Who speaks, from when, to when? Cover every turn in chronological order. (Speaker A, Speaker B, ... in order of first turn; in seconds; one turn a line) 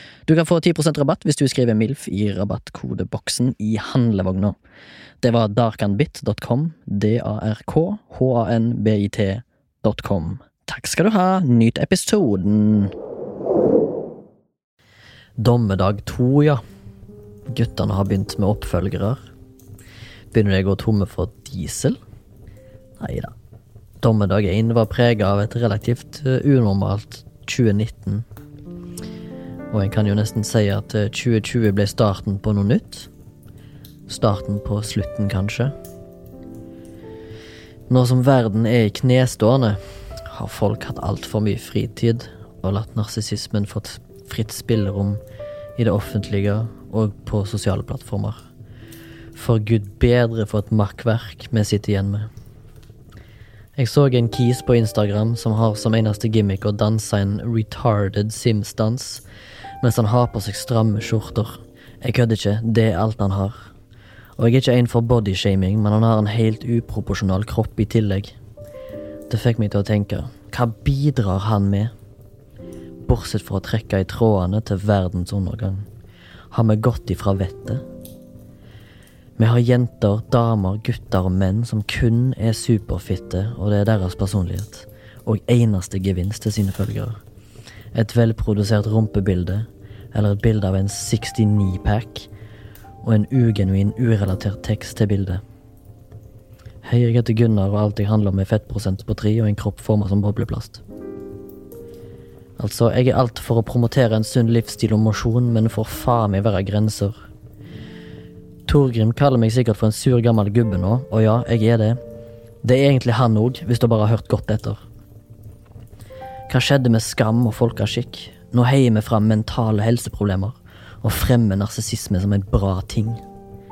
Speaker A: 0.3-4.6
Speaker A: 5.2-12.9
Speaker A: 15.4-16.6
Speaker A: 17.5-19.2
Speaker A: 20.3-22.0
Speaker A: 23.0-23.3
Speaker A: 24.0-28.3
Speaker A: 29.7-33.1
Speaker A: 34.1-35.7
Speaker A: 37.9-45.2
Speaker A: 45.8-48.4
Speaker A: 49.4-52.3
Speaker A: 53.8-59.2
Speaker A: 59.8-63.7
Speaker A: 64.4-68.3
Speaker A: 69.3-71.9
Speaker A: 73.1-75.9
Speaker A: 76.5-77.8
Speaker A: 79.4-87.2
Speaker A: 87.9-92.3
Speaker A: 93.0-95.4
Speaker A: 96.8-100.8
Speaker A: 102.6-107.2
Speaker A: 108.7-112.0
Speaker A: 112.6-114.8
Speaker A: 116.5-123.2